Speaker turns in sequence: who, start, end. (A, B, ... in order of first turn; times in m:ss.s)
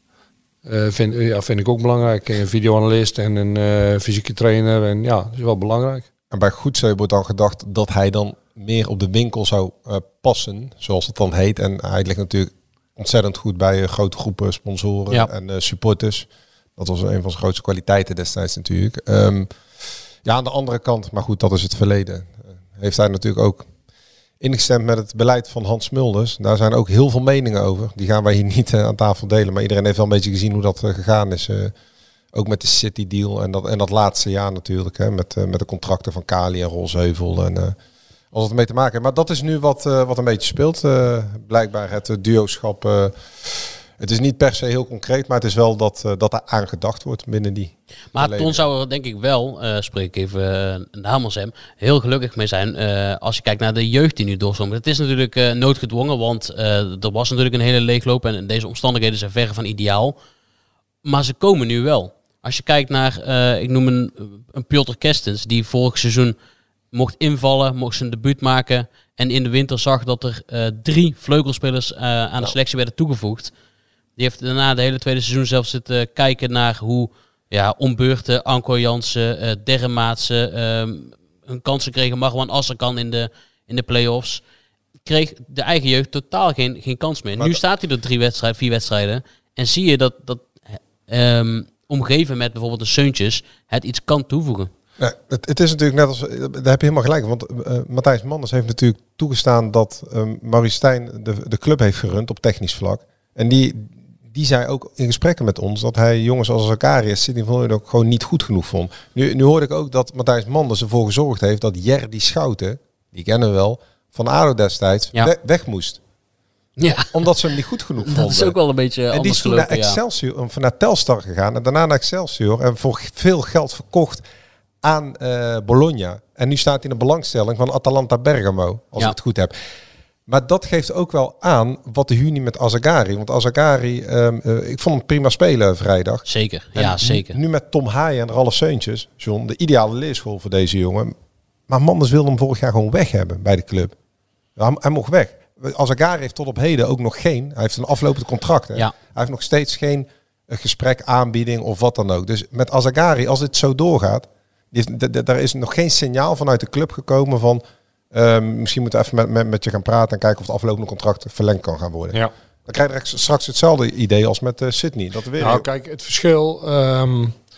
0:00.6-0:06.0 A
0:06.3-0:19.5 B
0:20.2-0:23.7 B
0:24.4-0:31.7 B
0:32.3-0:37.8 B
0:38.3-0:48.6 B
0:48.1-1:00.2 C
1:01.0-1:06.4 C
1:06.9-1:13.5 C
1:14.2-1:24.4 C
1:25.0-1:30.5 C
1:31.1-1:34.7 C
1:35.0-1:56.0 B
1:56.8-1:57.2 C
1:57.1-1:58.6 B
1:58.0-2:00.0 C
1:59.1-2:04.2 B
2:04.8-2:09.5 B
2:10.3-2:16.2 B
2:16.2-2:17.4 C
2:16.8-2:21.1 B
2:21.7-2:23.9 B
2:24.6-2:45.6 B
2:45.4-2:47.3 A